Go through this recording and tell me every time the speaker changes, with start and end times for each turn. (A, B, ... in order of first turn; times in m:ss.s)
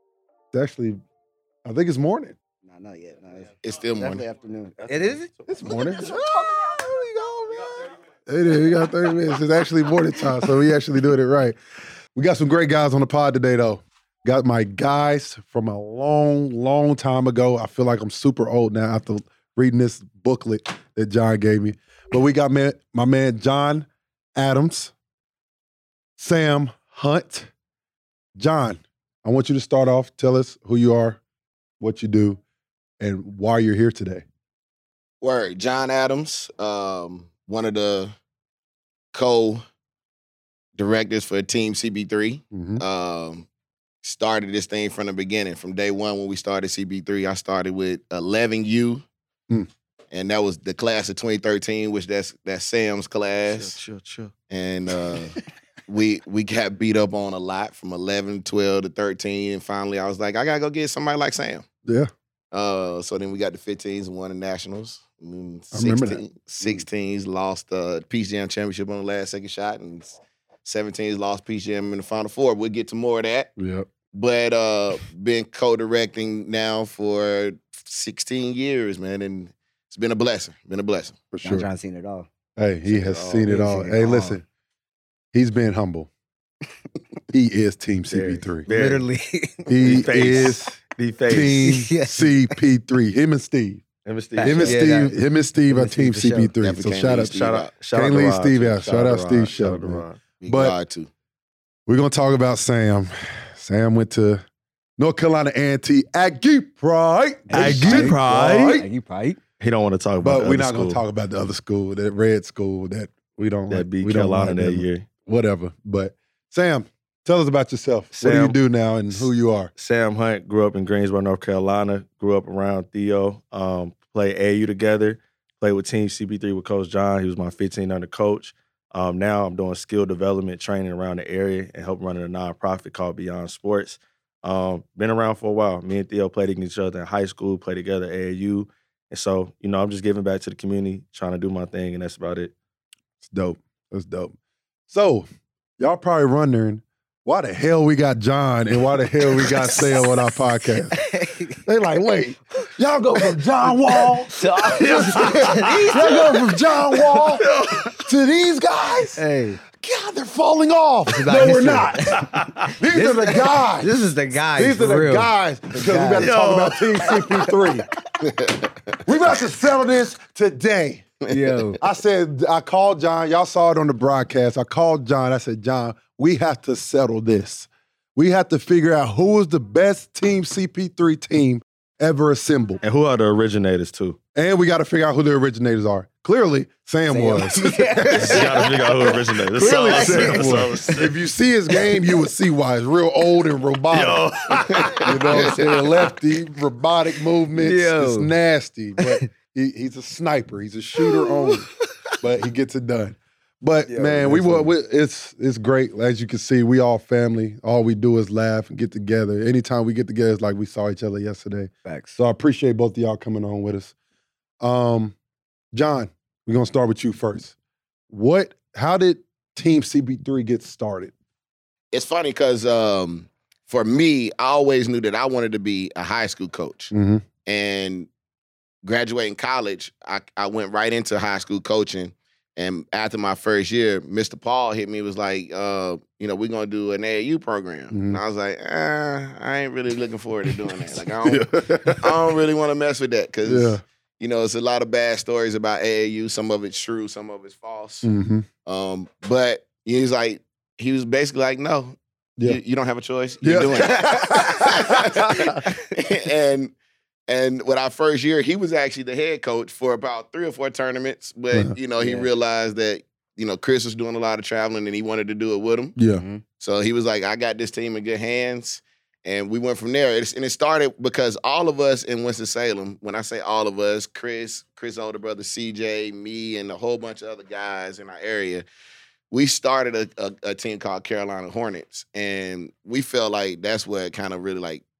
0:00.5-0:01.0 A
0:01.6-0:02.4 A
0:02.6-0:08.0 B
0:03.6-0:04.2 C
0:04.8-0:05.7 D
0:05.5-0:06.1 A
0:08.3-0:11.6 A
0:12.1-0:24.9 A
0:26.2-0:27.5 A
0:28.4-0:31.2 A
0:31.8-0:32.4 A
0:33.0-0:34.2 A
0:35.2-0:38.1 C
0:39.1-0:39.6 C
0:40.8-0:43.5 C
0:42.5-0:42.8 A
0:44.0-0:49.0 C
0:50.1-0:53.8 C
0:53.4-0:54.3 D
0:54.5-0:55.3 C
0:55.9-1:01.6 C
1:01.8-1:02.1 A
1:02.5-1:13.5 C
1:05.7-1:06.8 A
1:13.6-1:13.9 A
1:14.1-1:21.2 C
1:21.3-1:21.7 A
1:21.4-1:22.3 B
1:22.6-1:24.4 A
1:22.8-1:23.5 D
1:23.4-1:24.4 B
1:25.3-1:26.1 A
1:27.3-1:28.7 A
1:28.1-1:29.0 D
1:28.7-1:30.4 B
1:29.7-1:33.8 A
1:29.8-1:31.7 D
1:31.6-1:32.5 B
1:34.0-1:34.9 D
1:34.4-1:35.2 B
1:34.4-1:37.3 A
1:35.7-1:36.5 B
1:36.6-1:37.7 C
1:37.3-1:40.2 D
1:37.9-1:40.8 A
1:40.4-1:41.1 C
1:41.9-1:44.4 A
1:45.0-1:48.9 A
1:47.5-1:48.2 B
1:47.5-1:48.8 D
1:48.7-1:49.4 B
1:49.6-1:51.0 D
1:50.2-1:59.7 A
1:53.7-1:55.1 D
1:58.2-1:58.6 D
1:59.1-2:22.5 D
2:23.2-2:24.3 A
2:24.9-2:25.2 A
2:25.8-2:31.0 A
2:29.6-2:29.9 B
2:30.9-2:31.6 B
2:31.6-2:37.5 A
2:34.3-2:36.4 B
2:34.7-2:38.1 D
2:38.0-2:39.2 A
2:39.2-2:39.6 B
2:39.8-2:43.9 A
2:41.1-2:46.4 B
2:42.1-2:42.7 D
2:44.6-2:47.8 A
2:46.2-2:46.9 D
2:47.0-2:47.8 B
2:48.2-2:49.0 C
2:49.0-2:51.1 A
2:51.3-2:51.8 B
2:51.8-3:02.8 A
3:02.8-3:04.2 D
3:04.3-3:08.7 A
3:07.1-3:10.9 B
3:08.2-3:11.1 D
3:09.5-3:14.2 A
3:11.7-3:12.2 B
3:13.9-3:15.6 D
3:14.7-3:15.8 C
3:15.0-3:21.7 A
3:17.5-3:18.3 B
3:19.0-3:19.3 B
3:21.0-3:21.6 B
3:22.2-3:33.9 A
3:23.8-3:24.7 B
3:31.8-3:32.2 B
3:34.6-3:35.1 A
3:35.7-3:37.5 A
3:38.1-3:41.1 A
3:41.9-3:46.9 C
3:46.9-3:47.2 A
3:47.4-3:48.1 C
3:48.8-4:08.1 C
3:57.9-3:58.2 A
4:01.2-4:02.2 A
4:03.4-4:03.8 A
4:08.0-4:08.5 A
4:08.6-4:16.7 C
4:13.4-4:15.6 A
4:17.3-4:25.9 C
4:22.0-4:22.3 B
4:26.0-4:26.2 A
4:26.1-4:26.4 B
4:26.6-4:38.7 C
4:39.3-4:44.8 C